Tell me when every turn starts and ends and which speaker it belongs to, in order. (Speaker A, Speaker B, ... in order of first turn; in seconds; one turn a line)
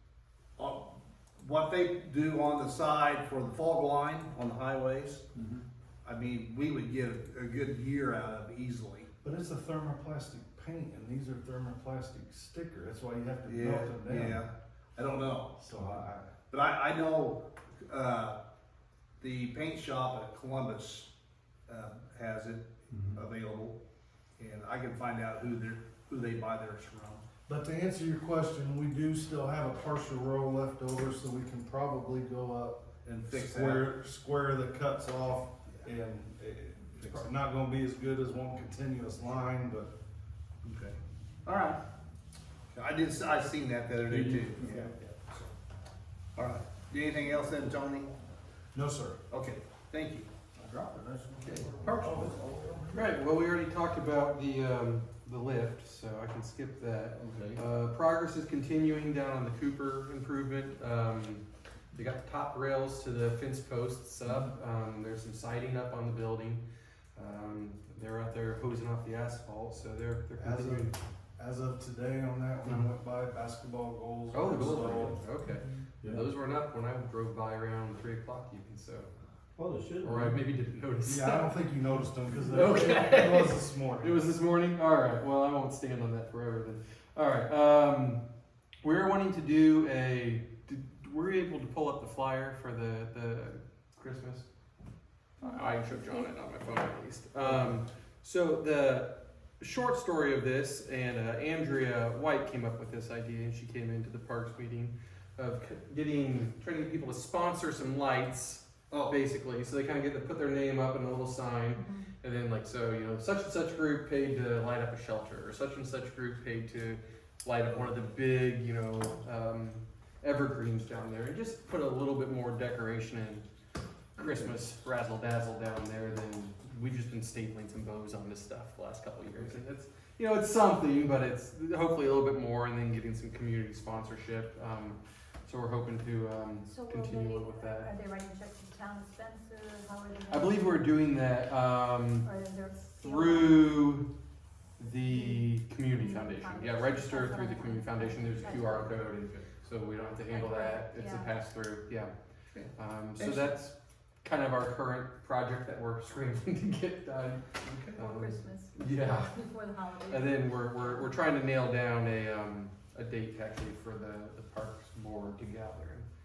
Speaker A: 0.6-5.2
Speaker B: 5.3-5.7
Speaker A: 6.0-9.1
Speaker C: 9.2-14.4
Speaker A: 13.5-15.6
Speaker C: 15.6-16.3
Speaker A: 16.5-18.4
Speaker A: 19.2-21.1
Speaker A: 21.7-23.8
Speaker B: 22.9-23.2
Speaker A: 24.4-27.2
Speaker C: 27.5-39.9
Speaker A: 33.0-33.9
Speaker A: 36.9-37.3
Speaker A: 40.6-41.8
Speaker A: 42.7-45.5
Speaker B: 44.1-44.9
Speaker A: 46.4-48.1
Speaker C: 48.7-49.2
Speaker A: 49.3-50.3
Speaker C: 50.6-52.9
Speaker A: 51.4-52.0
Speaker B: 51.6-53.0
Speaker D: 52.9-66.6
Speaker B: 57.1-57.6
Speaker D: 67.2-71.0
Speaker C: 70.4-75.2
Speaker D: 74.3-79.1
Speaker B: 74.5-76.3
Speaker B: 79.6-80.5
Speaker D: 80.0-81.6
Speaker C: 81.0-84.2
Speaker D: 82.4-88.2
Speaker D: 88.8-94.5
Speaker E: 95.4-96.6
Speaker D: 95.4-123.5
Speaker A: 108.9-109.2
Speaker E: 111.7-112.1
Speaker D: 124.2-137.9
Speaker E: 136.7-140.7
Speaker D: 140.3-142.3
Speaker E: 142.2-143.8
Speaker D: 143.0-144.1
Speaker D: 144.8-152.1
Speaker E: 145.1-149.1
Speaker A: 148.4-149.4
Speaker E: 150.2-151.3
Speaker A: 152.5-153.6
Speaker D: 152.8-159.4
Speaker A: 157.6-158.0
Speaker E: 158.0-161.3
Speaker D: 160.1-166.1